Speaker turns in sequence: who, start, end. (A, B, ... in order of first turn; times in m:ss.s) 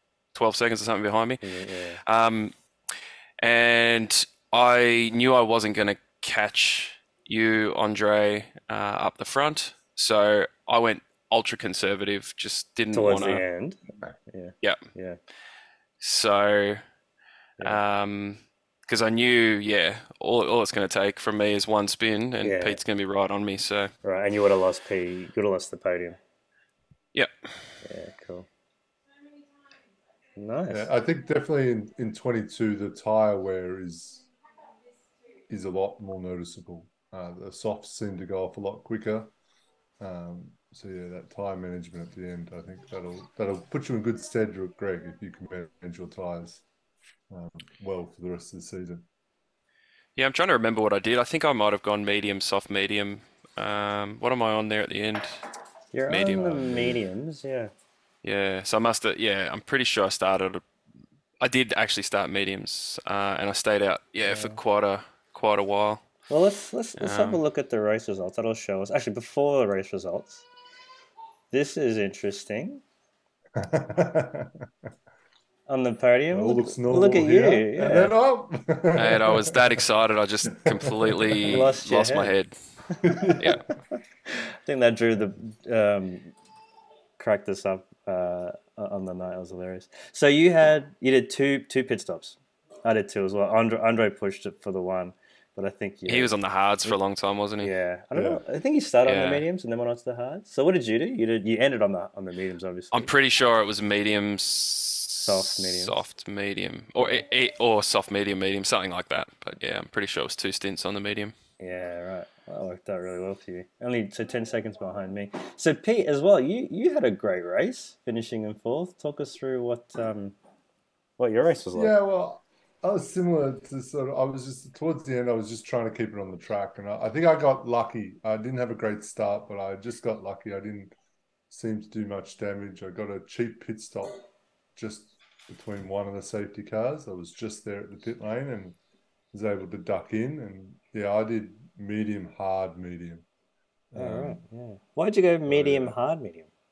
0:00.3-0:02.5 A
0:01.4-0:02.0 B
0:03.4-0:13.4 A
0:12.9-0:15.2 B
0:16.0-0:16.8 A
0:17.6-0:23.9 A
0:22.4-0:22.8 B
0:24.0-0:26.2 B
0:27.8-0:28.5 B
0:30.4-0:30.9 B
0:30.7-0:34.3 C
0:35.5-0:39.3 C
0:40.0-0:46.6 C
0:47.3-0:49.1 C
0:50.2-0:55.5 A
0:55.9-0:57.7 B
0:56.1-0:56.6 A
0:56.4-0:57.0 C
0:58.2-1:00.6 A
1:01.4-1:06.1 A
1:04.3-1:04.6 B
1:06.3-1:10.4 B
1:07.0-1:07.4 A
1:11.5-1:12.8 B
1:13.6-1:14.5 C
1:15.7-1:18.2 B
1:16.3-1:19.7 C
1:18.9-1:22.6 A
1:20.6-1:21.7 C
1:21.5-1:22.4 B
1:23.0-1:23.5 C
1:24.3-1:26.3 B
1:27.2-1:37.0 B
1:36.1-1:37.7 A
1:37.6-1:43.1 B
1:38.1-1:38.4 C
1:39.0-1:39.5 A
1:42.9-1:51.3 A
1:45.2-1:46.0 B
1:51.6-2:00.4 B
2:01.2-2:02.0 B
2:01.7-2:10.9 C
2:11.5-2:14.2 C
2:14.8-2:18.8 C
2:19.3-2:23.2 C
2:23.9-2:24.4 C
2:24.0-2:26.5 B
2:25.5-2:26.0 C